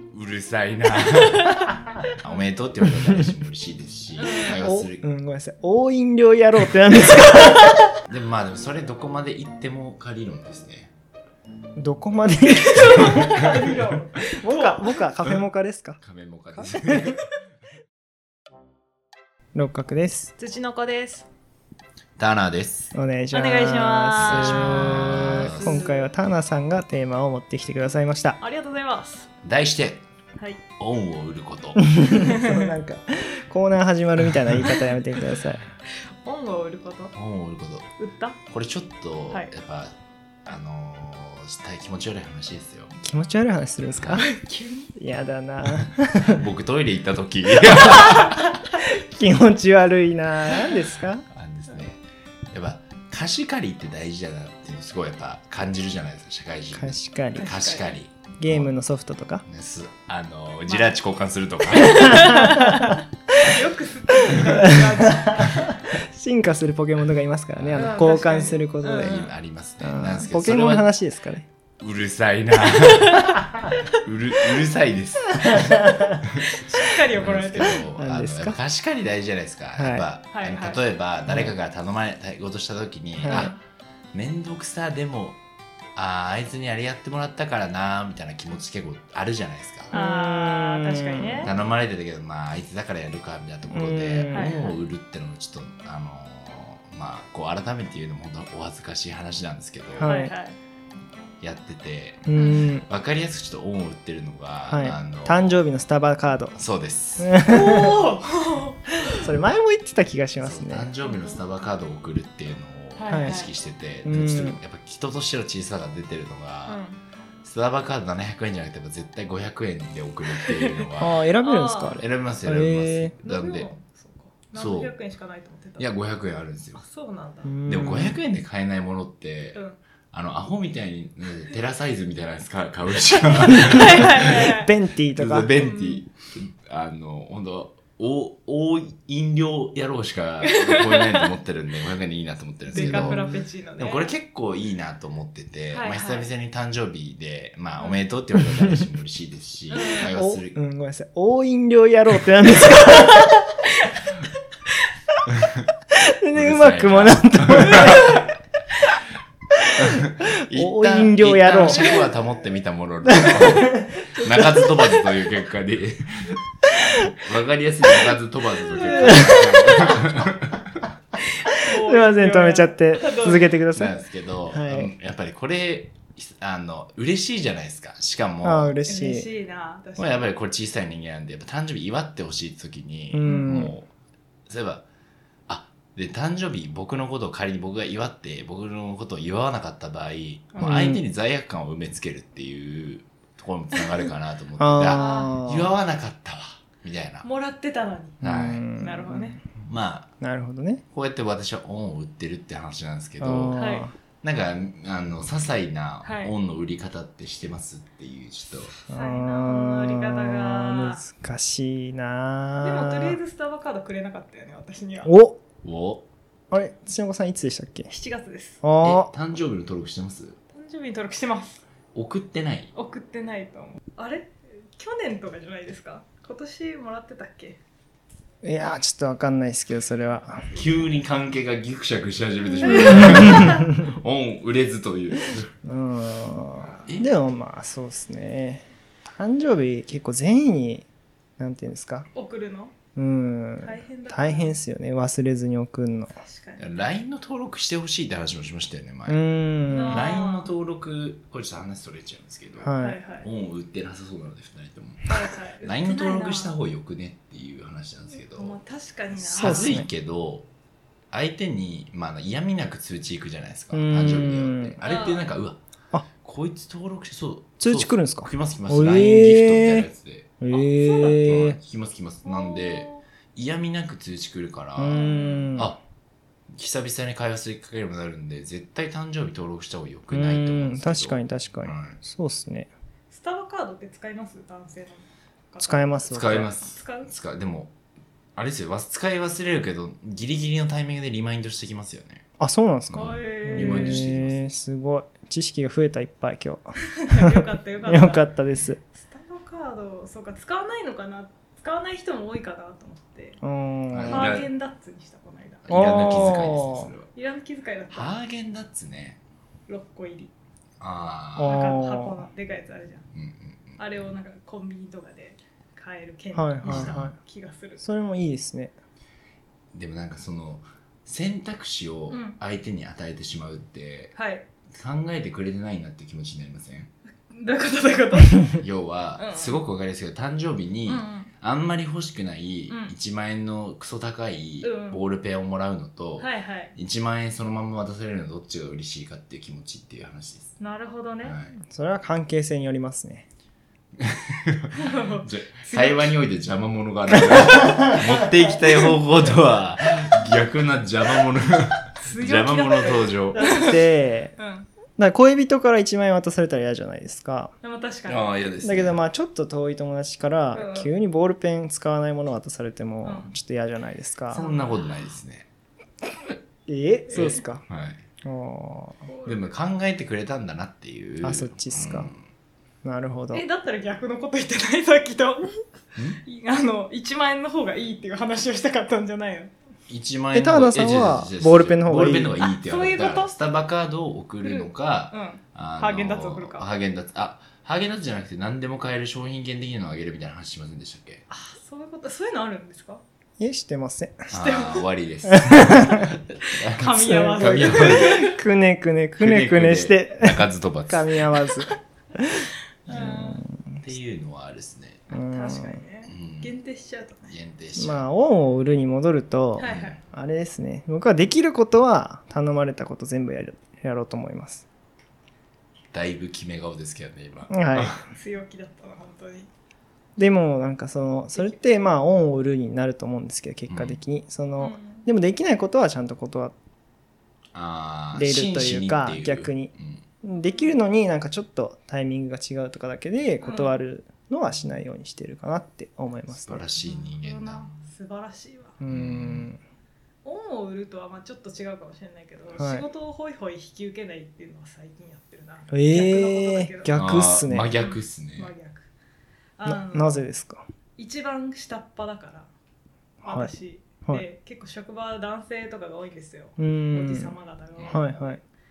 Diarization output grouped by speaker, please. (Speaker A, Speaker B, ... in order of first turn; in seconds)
Speaker A: 0.1-5.0, 8.0-10.9, 16.0-17.2, 22.2-22.9, 24.2-25.9, 29.4-30.0, 30.8-31.8, 37.1-37.9, 38.5-39.9, 40.4-42.9, 44.0-44.2, 45.8-48.5, 51.3-58.7, 59.4-62.5, 67.5-68.1, 69.0-70.9, 71.8-73.4, 74.0-76.4, 77.1-83.5, 84.1-85.4, 86.0-89.9, 91.4-100.1, 101.4-102.2, 102.8-105.6, 106.5-107.4, 110.4-116.8, 117.4-121.2, 121.9-123.7, 124.5-124.9, 125.8-126.8, 127.7-134.5, 135.1-150.6, 156.3-158.2, 159.8-166.4, 167.1-170.6, 173.7-178.8, 180.0-183.9, 184.5-184.8, 185.5-197.2, 198.2-198.7, 199.6-200.1, 200.9-203.6, 204.2-208.8, 215.6-216.1, 218.8-220.4, 221.9-222.7, 230.5-235.5, 236.8-237.1, 246.6-255.1, 255.6-258.6, 259.3-260.5, 261.1-265.6, 266.2-270.3, 271.1-275.8, 276.5-282.0, 286.1-287.7, 288.4-292.2, 292.9-294.4, 303.9-304.5, 305.6-307.1, 307.9-309.2, 310.8-311.7, 313.1-314.0, 316.6-317.1, 319.7-324.1, 324.7-326.9, 328.6-340.5, 341.2-341.5, 344.0-353.5, 358.1-359.0, 364.3-365.5, 367.1-368.0, 369.2-372.2, 379.9-391.2, 394.3-398.2, 399.2-401.2, 403.8-405.1, 406.1-406.5, 407.3-408.1, 409.6-410.0, 415.9-418.0, 423.7-424.0, 427.5-430.0, 436.4-437.7, 438.9-439.5, 446.9-448.5
Speaker B: 1.1-1.5, 4.2-4.6, 12.5-15.0, 20.4-21.3, 23.3-26.1, 28.4-29.3, 32.3-32.6, 36.2-37.1, 38.0-38.4, 44.2-44.9, 57.4-57.9, 60.7-60.9, 62.0-65.7, 67.7-69.3, 72.7-73.4, 76.5-77.9, 80.3-80.8, 83.2-83.5, 89.9-91.5, 94.3-94.8, 100.0-100.6, 102.4-102.7, 107.4-109.2, 111.0-111.4, 113.0-113.5, 116.7-117.0, 120.3-120.9, 121.4-122.0, 123.2-125.9, 126.8-127.5, 133.6-134.7, 135.6-136.0, 140.4-141.3, 142.7-144.1, 145.7-146.3, 149.7-150.1, 157.7-158.2, 161.7-162.0, 168.7-169.9, 171.5-173.5, 178.9-180.3, 183.2-183.5, 194.8-195.3, 197.2-198.2, 198.8-199.4, 203.5-203.9, 206.0-206.3, 208.9-211.0, 212.6-215.1, 217.9-218.6, 220.5-221.6, 222.7-227.6, 230.2-231.0, 232.6-233.6, 242.1-242.7, 243.6-244.6, 246.1-246.8, 249.7-250.5, 252.8-253.3, 255.0-256.6, 258.2-259.8, 264.8-265.3, 270.5-271.4, 272.2-273.0, 274.9-275.5, 283.1-287.1, 292.9-294.1, 297.0-298.3, 298.9-303.4, 304.1-305.6, 306.2-306.5, 307.1-308.1, 309.7-310.3, 311.4-313.1, 313.8-317.8, 322.1-322.4, 324.1-324.4, 327.3-328.6, 329.2-329.6, 330.9-331.3, 334.6-335.0, 336.2-336.7, 340.6-341.4, 344.7-346.1, 352.0-354.7, 357.6-358.3, 360.5-360.9, 363.0-363.3, 364.3-365.0, 367.1-367.4, 369.1-369.4, 373.3-375.5, 376.2-379.5, 382.4-383.3, 384.4-386.6, 391.3-393.0, 394.3-394.8, 395.7-398.4, 402.9-403.4, 405.1-407.4, 409.6-410.0, 418.1-419.5, 421.3-421.6, 424.6-425.1, 430.4-430.8, 433.4-433.7, 436.8-438.8, 440.2-446.9, 447.8-448.9, 449.6-450.2, 451.0-452.5, 453.2-458.4
Speaker C: 3.0-3.3, 4.6-7.9, 11.8-13.7, 14.3-16.0, 16.5-17.2, 19.5-20.3, 22.9-28.4, 31.8-35.6, 43.0-44.3, 45.0-46.4, 48.8-51.2, 56.7-57.5, 58.4-59.4, 62.0-62.9, 64.5-69.3, 69.8-71.5, 75.5-76.1, 77.8-78.6, 79.8-80.0, 81.3-81.5, 83.2-83.5, 89.9-91.5, 93.7-94.5, 100.0-100.3, 102.2-102.8, 104.7-106.5, 107.2-108.0, 109.2-110.9, 113.1-113.4, 114.0-114.6, 121.0-123.1, 127.4-128.2, 133.5-135.5, 142.7-143.4, 148.3-148.6, 150.1-153.4, 156.2-158.2, 160.5-161.9, 163.1-164.9, 169.0-169.9, 171.8-174.0, 174.5-174.9, 178.4-179.3, 183.1-183.7, 190.6-191.0, 194.6-195.7, 198.2-199.4, 200.2-200.8, 203.2-203.9, 208.9-213.2, 215.0-215.4, 216.5-217.9, 218.6-219.1, 228.4-230.5, 232.8-233.9, 235.6-240.9, 241.4-242.1, 242.9-246.1, 249.1-250.1, 252.6-253.0, 259.4-259.9, 263.7-264.8, 267.6-269.9, 270.4-271.6, 274.8-275.8, 280.1-282.7, 285.6-286.5, 292.4-298.8, 303.4-304.4, 305.7-306.9, 311.4-312.2, 316.3-317.2, 317.8-318.7, 341.7-343.2, 353.3-354.3, 355.0-357.5, 358.6-364.5, 366.7-367.6, 368.2-369.0, 371.2-372.1, 372.8-373.4, 380.3-382.4, 393.4-394.3, 395.3-396.0, 396.9-403.8, 405.1-405.8, 407.8-414.6, 417.5-418.0, 420.2-426.5, 428.1-436.7, 438.8-439.6, 442.6-442.9, 445.7-447.7, 449.6-450.6, 453.2-453.5, 456.6-457.3, 457.9-458.4